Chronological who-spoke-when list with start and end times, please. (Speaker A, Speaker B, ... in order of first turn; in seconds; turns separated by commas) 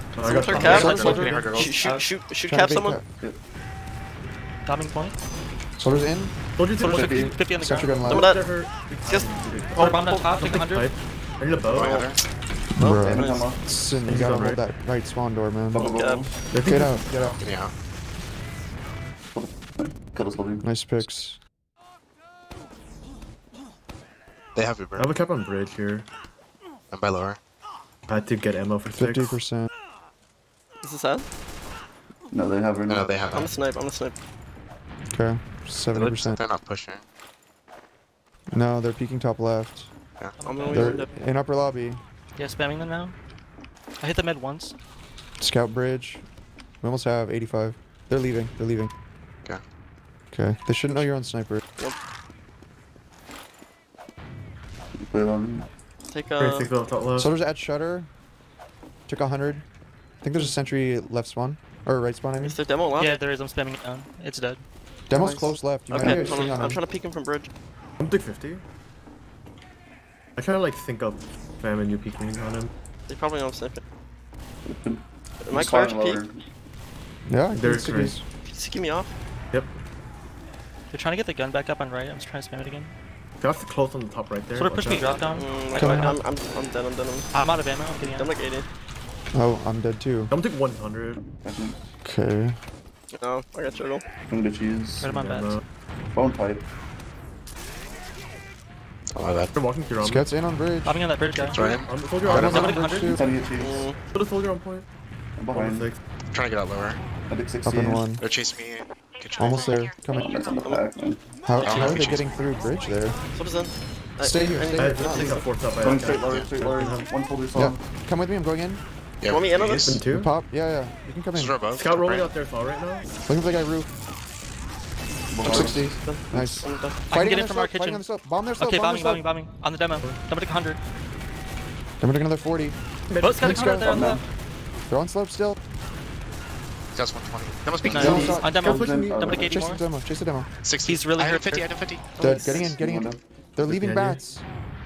Speaker A: 0.2-3.0, Speaker B: 0.2-0.6, Speaker C: 0.5-2.1, Speaker D: 0.5-1.7, Speaker E: 0.5-1.6, Speaker E: 2.5-3.0, Speaker C: 4.7-5.2, Speaker E: 5.8-6.3, Speaker B: 6.6-7.3, Speaker C: 6.8-8.0, Speaker F: 6.8-7.4, Speaker E: 7.6-8.3, Speaker B: 8.0-12.0, Speaker A: 8.1-8.4, Speaker A: 9.0-9.9, Speaker C: 9.8-10.9, Speaker D: 11.7-12.2, Speaker A: 11.7-12.2, Speaker E: 12.7-15.9, Speaker A: 12.8-13.5, Speaker F: 13.0-13.6, Speaker B: 14.1-14.6, Speaker F: 15.7-16.3, Speaker A: 15.8-16.4, Speaker B: 16.5-17.0, Speaker E: 16.6-17.4, Speaker D: 17.4-17.7, Speaker F: 19.3-20.6, Speaker E: 20.6-21.4, Speaker D: 24.5-25.1, Speaker B: 25.0-26.1, Speaker D: 26.9-27.4, Speaker B: 28.1-29.4, Speaker E: 28.9-29.7, Speaker A: 30.8-31.2, Speaker F: 32.3-33.3, Speaker D: 32.9-33.5, Speaker A: 33.3-34.1, Speaker E: 35.1-36.4, Speaker D: 35.9-37.0, Speaker E: 38.5-39.9, Speaker C: 40.4-41.0, Speaker A: 40.4-41.1, Speaker E: 40.7-42.0, Speaker C: 42.4-43.1, Speaker C: 44.0-44.7, Speaker E: 45.4-46.2, Speaker E: 46.8-48.9, Speaker E: 50.3-51.6, Speaker F: 55.0-55.7, Speaker A: 56.1-56.7, Speaker B: 56.4-57.3, Speaker E: 57.2-58.1, Speaker E: 59.1-59.6, Speaker E: 60.2-62.6, Speaker A: 62.4-63.1, Speaker C: 63.0-64.6, Speaker E: 65.1-66.8, Speaker A: 65.2-67.5, Speaker F: 65.9-66.3, Speaker B: 68.0-68.6, Speaker B: 70.4-72.7, Speaker A: 73.1-73.8, Speaker F: 74.6-76.4, Speaker A: 75.4-76.2, Speaker E: 77.3-78.2, Speaker B: 77.5-78.2, Speaker A: 78.4-79.1, Speaker C: 80.9-82.9, Speaker B: 83.4-85.0, Speaker C: 84.5-86.2, Speaker A: 85.3-87.3, Speaker E: 85.7-86.1, Speaker C: 87.3-88.3, Speaker A: 88.0-88.7, Speaker E: 89.3-90.3, Speaker B: 90.3-91.2, Speaker F: 91.2-91.8, Speaker E: 92.0-92.6, Speaker A: 93.1-94.0, Speaker F: 94.3-95.1, Speaker C: 95.0-95.5, Speaker B: 95.1-95.6, Speaker F: 96.1-96.6, Speaker D: 99.1-99.5, Speaker B: 99.5-100.3, Speaker E: 100.0-101.0, Speaker C: 100.8-101.7, Speaker D: 101.5-102.7, Speaker B: 101.6-102.8, Speaker E: 102.2-103.2, Speaker C: 102.4-103.2, Speaker F: 103.0-103.8, Speaker A: 103.6-104.0, Speaker B: 104.0-104.8, Speaker F: 105.4-105.9, Speaker B: 105.5-106.0, Speaker D: 106.3-107.0, Speaker F: 107.3-108.0, Speaker E: 107.6-108.2, Speaker D: 108.2-109.9, Speaker E: 109.4-110.4, Speaker F: 110.1-111.2, Speaker A: 110.5-110.8, Speaker E: 111.4-113.2, Speaker D: 111.6-112.3, Speaker A: 113.3-115.5, Speaker E: 114.2-115.4, Speaker B: 114.8-117.1, Speaker F: 115.8-117.8, Speaker E: 117.5-118.8, Speaker D: 119.2-120.0, Speaker A: 119.3-119.9, Speaker B: 119.8-120.3, Speaker E: 120.0-121.6, Speaker D: 121.3-122.3, Speaker B: 121.7-123.0, Speaker E: 123.2-123.9, Speaker F: 125.3-126.5, Speaker A: 125.4-127.0, Speaker E: 125.5-129.2, Speaker C: 127.1-128.0, Speaker C: 128.6-130.8, Speaker E: 132.0-132.8, Speaker B: 133.1-133.8, Speaker C: 133.2-134.2, Speaker E: 133.4-134.1, Speaker F: 133.8-134.2, Speaker E: 134.9-135.6, Speaker D: 136.9-138.4, Speaker C: 137.8-139.8, Speaker E: 137.9-138.5, Speaker F: 138.0-139.6, Speaker A: 138.0-138.3, Speaker B: 138.4-139.4, Speaker E: 139.4-140.5, Speaker D: 140.6-142.1, Speaker C: 140.8-141.7, Speaker A: 142.1-142.7, Speaker E: 142.2-144.4, Speaker F: 142.7-143.2, Speaker B: 143.7-144.2